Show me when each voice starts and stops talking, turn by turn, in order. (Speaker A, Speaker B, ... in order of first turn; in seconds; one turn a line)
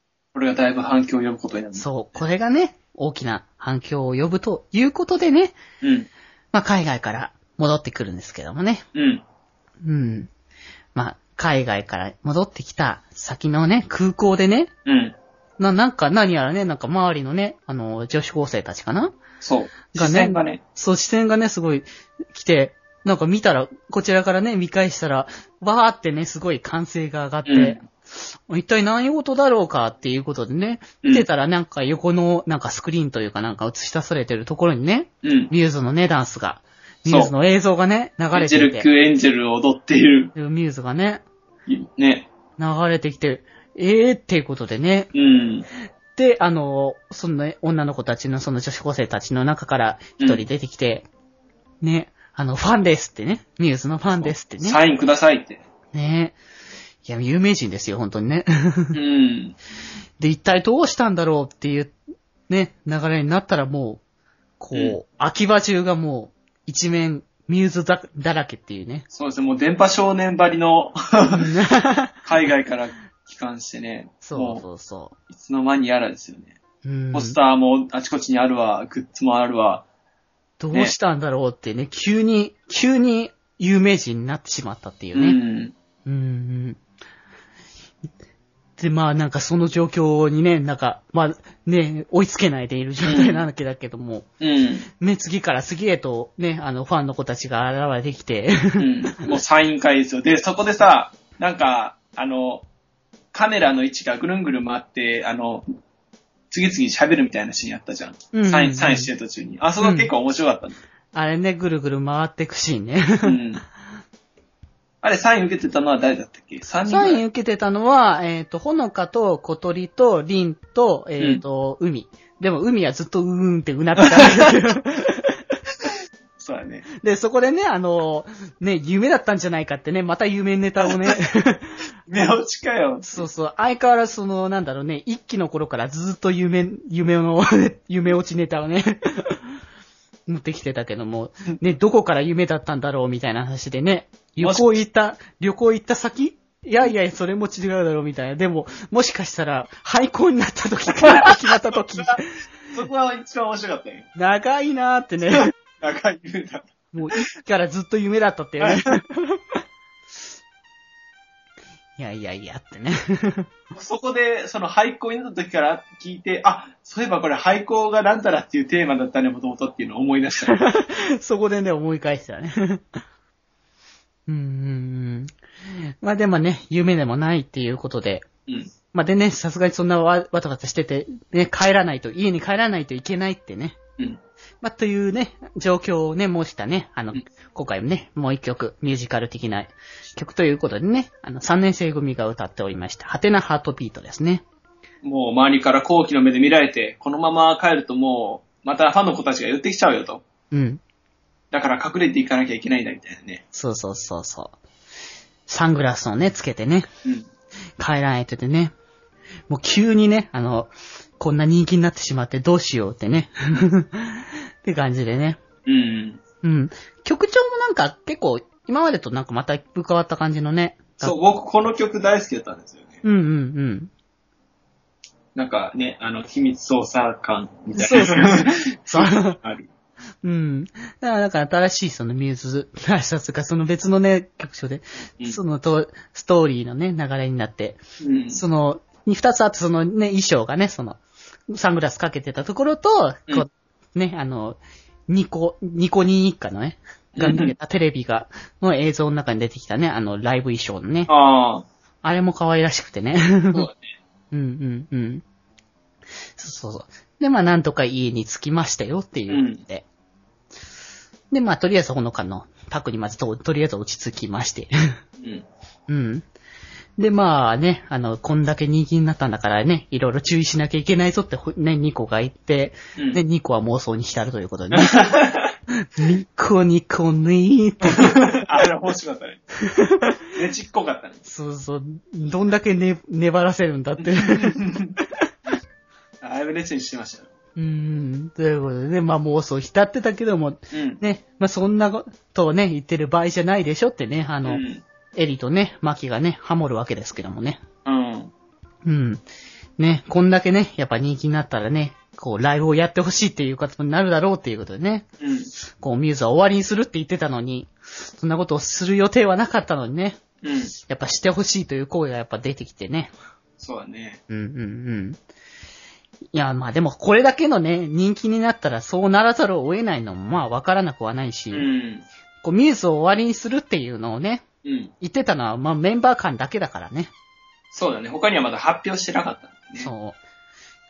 Speaker A: 0.3-2.2
Speaker B: 1.8-5.6
Speaker A: 5.8-6.1
Speaker B: 6.5-8.8
Speaker A: 8.9-9.2
Speaker B: 9.8-10.3
Speaker B: 10.9-14.7
Speaker A: 14.9-15.2
Speaker B: 15.6-19.2
Speaker A: 19.4-20.6
Speaker B: 19.9-27.9
Speaker A: 27.4-27.8
Speaker B: 28.5-38.9
Speaker A: 35.2-35.5
Speaker A: 37.1-37.3
Speaker A: 38.3-40.3
Speaker B: 40.4-41.2
Speaker A: 41.7-42.3
Speaker B: 42.6-45.1
Speaker A: 45.1-45.7
Speaker B: 46.2-51.1
Speaker A: 50.2-50.5
Speaker B: 51.8-54.8
Speaker A: 54.1-55.6
Speaker B: 55.9-56.4
Speaker B: 57.0-59.0
Speaker A: 58.9-59.6
Speaker B: 60.2-62.0
Speaker B: 62.5-64.0
Speaker B: 64.6-69.1
Speaker A: 69.1-71.5
Speaker B: 71.3-72.3
Speaker A: 72.2-74.6
Speaker B: 74.2-75.2
Speaker A: 75.3-76.6
Speaker B: 76.8-77.4
Speaker A: 77.1-79.8
Speaker B: 80.6-85.4
Speaker A: 85.1-85.7
Speaker B: 86.0-86.8
Speaker B: 88.8-94.3
Speaker A: 93.0-93.4
Speaker A: 94.4-94.9
Speaker B: 94.9-98.9
Speaker A: 98.8-102.7
Speaker A: 103.3-105.7
Speaker A: 106.5-110.8
Speaker B: 108.3-109.1
Speaker B: 109.8-110.1
Speaker B: 111.1-113.4
Speaker A: 113.2-113.6
Speaker A: 115.0-117.2
Speaker B: 116.9-125.4
Speaker A: 126.4-126.9
Speaker B: 127.0-131.7
Speaker A: 130.8-131.2
Speaker A: 132.1-133.3
Speaker B: 133.1-139.5
Speaker B: 140.3-152.3
Speaker A: 144.4-144.8
Speaker A: 151.0-152.2
Speaker A: 152.7-154.1
Speaker B: 154.2-155.5
Speaker A: 155.3-157.2
Speaker B: 156.9-159.4
Speaker A: 158.6-159.0
Speaker B: 162.0-163.5
Speaker A: 163.7-170.5
Speaker B: 170.5-173.0
Speaker B: 174.3-178.3
Speaker A: 178.5-178.7
Speaker B: 178.9-183.8
Speaker B: 184.6-194.4
Speaker A: 195.0-200.2
Speaker B: 200.5-200.8
Speaker A: 201.5-203.4
Speaker B: 203.5-204.6
Speaker B: 205.5-206.9
Speaker B: 207.8-208.7
Speaker B: 209.5-215.4
Speaker A: 215.7-216.2
Speaker B: 216.4-221.2
Speaker A: 221.0-223.0
Speaker B: 223.0-223.9
Speaker A: 225.3-229.7
Speaker B: 227.7-229.4
Speaker B: 230.2-237.8
Speaker A: 238.0-238.4
Speaker B: 238.3-251.1
Speaker A: 247.2-247.5
Speaker A: 251.1-251.7
Speaker B: 252.0-253.7
Speaker A: 253.5-253.9
Speaker B: 254.3-255.2
Speaker B: 256.4-259.9
Speaker A: 259.3-259.6
Speaker B: 261.3-264.7
Speaker A: 265.2-265.5
Speaker B: 265.9-266.2
Speaker B: 267.0-275.0
Speaker A: 273.0-273.2
Speaker A: 274.7-275.5
Speaker B: 275.7-278.2
Speaker A: 277.9-279.4
Speaker B: 279.7-280.2
Speaker A: 280.3-281.2
Speaker B: 281.3-284.6
Speaker A: 284.0-285.0
Speaker A: 286.2-287.3
Speaker B: 287.6-294.6
Speaker A: 290.7-291.0
Speaker A: 294.4-294.8
Speaker B: 295.1-297.6
Speaker A: 297.9-298.3
Speaker B: 298.8-299.2
Speaker B: 299.8-305.1
Speaker A: 305.2-305.5
Speaker B: 305.8-310.2
Speaker A: 310.4-310.8
Speaker B: 310.9-313.1
Speaker A: 313.6-314.2
Speaker B: 314.3-315.2
Speaker B: 316.3-321.7
Speaker A: 321.5-322.1
Speaker B: 322.4-324.4
Speaker A: 324.6-324.9
Speaker B: 325.0-327.1
Speaker A: 327.7-329.9
Speaker B: 329.8-330.2